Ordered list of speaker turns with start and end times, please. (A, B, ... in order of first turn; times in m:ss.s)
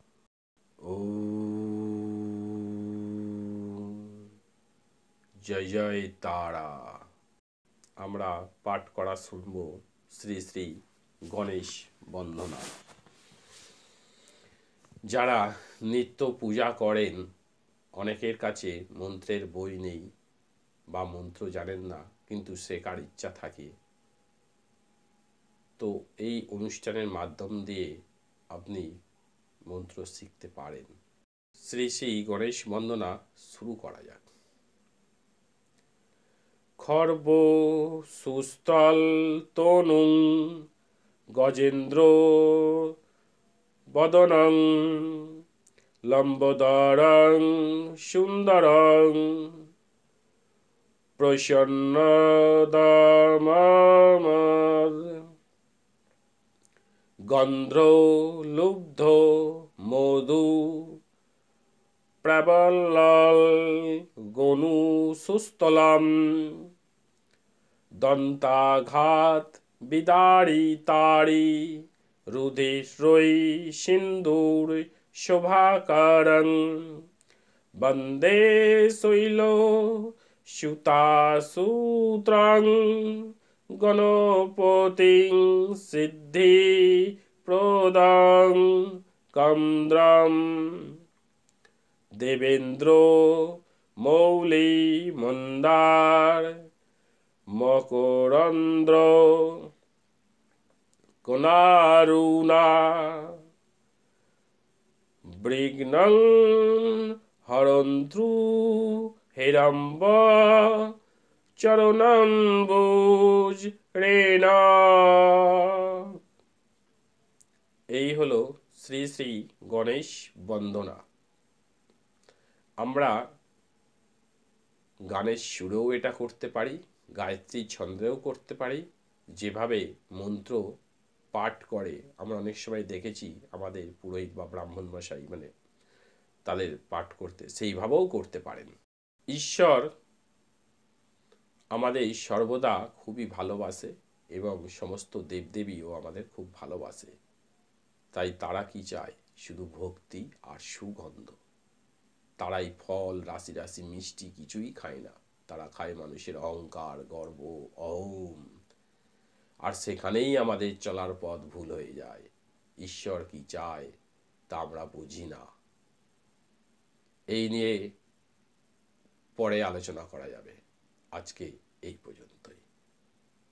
0:00.8-0:04.0 A
0:05.4-0:07.0 A
0:08.0-0:10.7 A
0:11.3-0:12.7 A
0:15.1-0:17.2 A
0:18.0-0:20.0 A
0:20.9-0:23.7 A
0:25.8-0:27.9 A
0:28.5-0:28.9 A
0:29.7-0:30.9 A
0:31.6-0:34.3 A
0:36.8-0:40.6 A
0:41.4-0:42.9 A
0:43.9-0:45.3 A
0:46.1-0:49.6 A
0:51.2-0:55.2 A
0:57.3-1:01.0 A
1:02.2-1:06.6 A
1:08.0-1:17.0 A
1:17.8-1:23.3 A
1:23.8-1:30.9 A
1:32.2-1:36.5 A
1:37.5-1:39.6 A
1:41.2-1:43.3 A
1:45.4-1:50.9 A
1:51.6-1:56.1 A
1:57.9-2:01.0 A
2:02.8-2:03.1 A
2:05.1-2:08.8 A
2:09.4-2:10.6 A
2:11.3-2:15.5 A
2:16.4-2:18.7 A
2:19.3-2:19.9 A
2:21.7-2:27.1 A
2:28.1-2:31.4 A
2:32.4-2:38.4 A
2:39.6-2:42.3 A
2:42.8-2:43.9 A
2:44.5-2:45.5 A
2:47.3-2:47.9 A
2:49.4-2:50.6 A
2:51.1-2:52.6 A